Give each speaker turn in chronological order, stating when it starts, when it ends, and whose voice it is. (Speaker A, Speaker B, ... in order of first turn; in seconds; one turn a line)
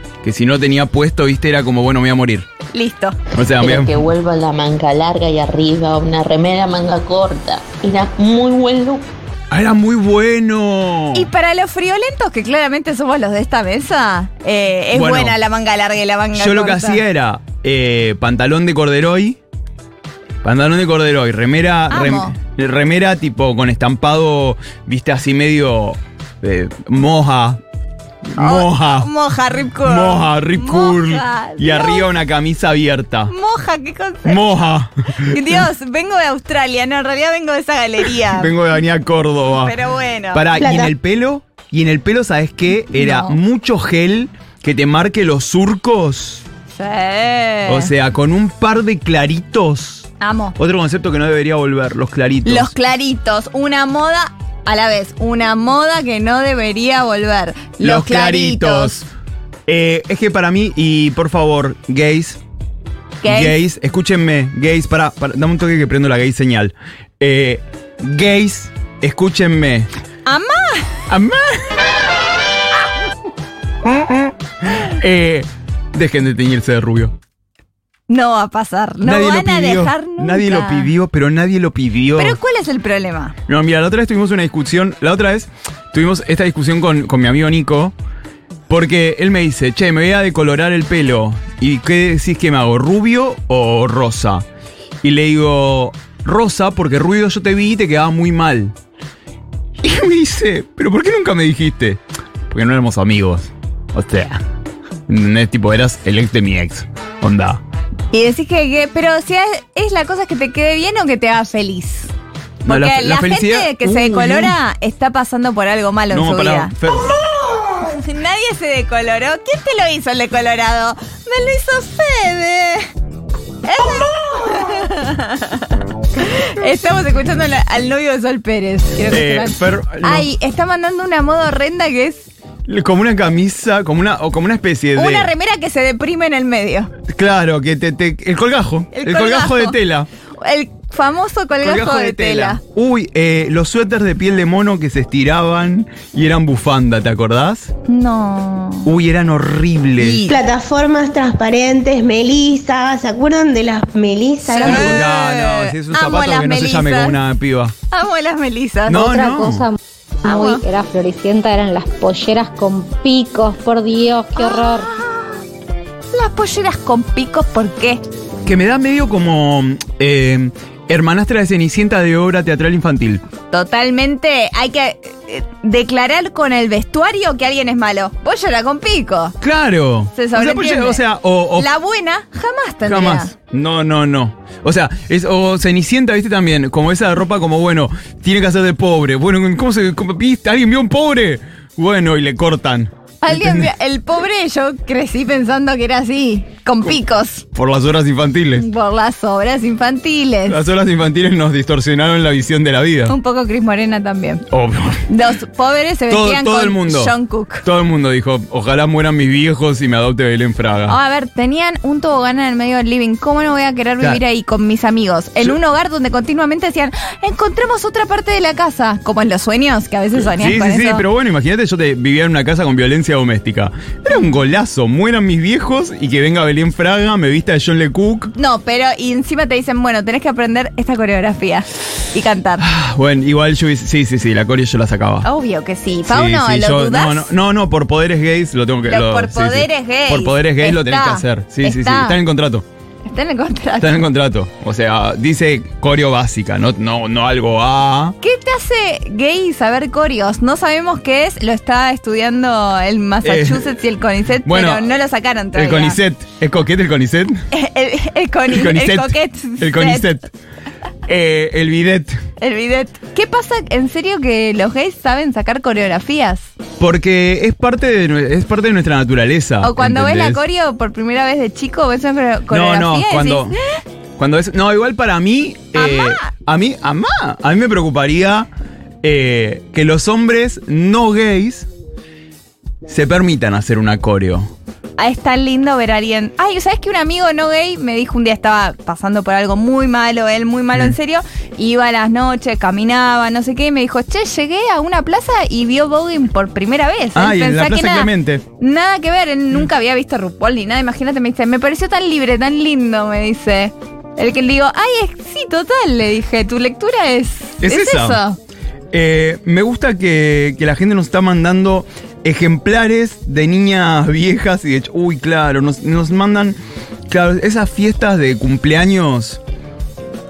Speaker A: 0.2-2.5
Speaker B: 2.7-3.2
Speaker A: 3.4-4.1
Speaker C: 3.6-9.1
Speaker A: 9.5-11.3
Speaker B: 11.2-17.0
Speaker A: 14.9-15.4
Speaker A: 16.4-19.4
Speaker A: 20.4-27.6
Speaker B: 21.9-22.3
Speaker A: 28.3-29.1
Speaker B: 28.4-32.1
Speaker A: 29.8-33.3
Speaker B: 33.3-34.4
Speaker A: 34.2-35.7
Speaker B: 35.2-38.5
Speaker A: 38.3-39.7
Speaker B: 39.6-40.5
Speaker A: 40.3-46.4
Speaker B: 42.9-43.4
Speaker B: 46.7-47.9
Speaker A: 47.7-52.7
Speaker B: 50.2-50.5
Speaker B: 52.5-59.0
Speaker A: 57.8-59.1
Speaker A: 59.7-62.4
Speaker B: 63.2-63.6
Speaker A: 63.3-69.9
Speaker B: 70.3-71.0
Speaker A: 71.1-71.8
Speaker A: 73.9-77.1
Speaker B: 78.1-80.9
Speaker A: 79.0-82.4
Speaker B: 82.2-83.3
Speaker A: 83.5-87.9
Speaker A: 88.7-94.5
Speaker A: 95.0-98.7
Speaker A: 99.8-104.4
Speaker A: 105.1-107.6
Speaker B: 108.1-112.1
Speaker B: 112.7-116.7
Speaker A: 112.7-114.6
Speaker A: 116.1-117.2
Speaker B: 117.8-122.9
Speaker B: 123.7-125.7
Speaker B: 126.2-132.3
Speaker A: 129.1-130.3
Speaker A: 132.7-135.3
Speaker B: 135.0-136.9
Speaker A: 137.1-140.1
Speaker B: 138.9-139.8
Speaker B: 140.4-142.6
Speaker A: 141.6-147.7
Speaker B: 147.9-148.9
Speaker A: 148.8-150.2
Speaker B: 150.0-150.4
Speaker D: 150.3-154.9
Speaker B: 154.5-157.2
Speaker A: 154.6-157.7
Speaker B: 157.9-159.2
Speaker A: 158.9-159.7
Speaker E: 159.0-164.9
Speaker B: 160.2-160.6
Speaker B: 164.4-165.3
Speaker B: 166.1-168.0
Speaker A: 168.5-173.2
Speaker B: 173.5-179.3
Speaker A: 179.4-181.7
Speaker B: 180.1-181.0
Speaker B: 181.6-183.3
Speaker A: 182.9-193.7
Speaker B: 193.2-197.4
Speaker A: 197.5-198.7
Speaker B: 198.6-200.6
Speaker A: 200.5-203.2
Speaker B: 203.1-204.4
Speaker A: 204.5-205.0
Speaker B: 205.1-207.7
Speaker A: 206.1-211.0
Speaker B: 210.9-221.0
Speaker A: 220.2-228.3
Speaker B: 228.3-232.6
Speaker A: 232.6-235.3
Speaker B: 235.2-237.3
Speaker A: 236.1-242.7
Speaker B: 238.9-242.2
Speaker B: 243.1-244.0
Speaker A: 243.8-248.2
Speaker B: 248.2-256.0
Speaker A: 253.2-253.7
Speaker A: 254.4-254.9
Speaker A: 255.5-257.4
Speaker B: 257.5-260.1
Speaker A: 258.5-260.3
Speaker A: 261.1-262.2
Speaker B: 262.4-266.5
Speaker A: 266.8-270.4
Speaker B: 269.6-273.5
Speaker A: 272.5-273.6
Speaker A: 274.2-278.5
Speaker B: 275.8-276.3
Speaker A: 279.0-281.7
Speaker A: 282.9-284.5
Speaker B: 285.0-308.4
Speaker A: 297.1-298.4
Speaker A: 307.6-308.2
Speaker A: 308.9-316.6
Speaker A: 317.1-319.4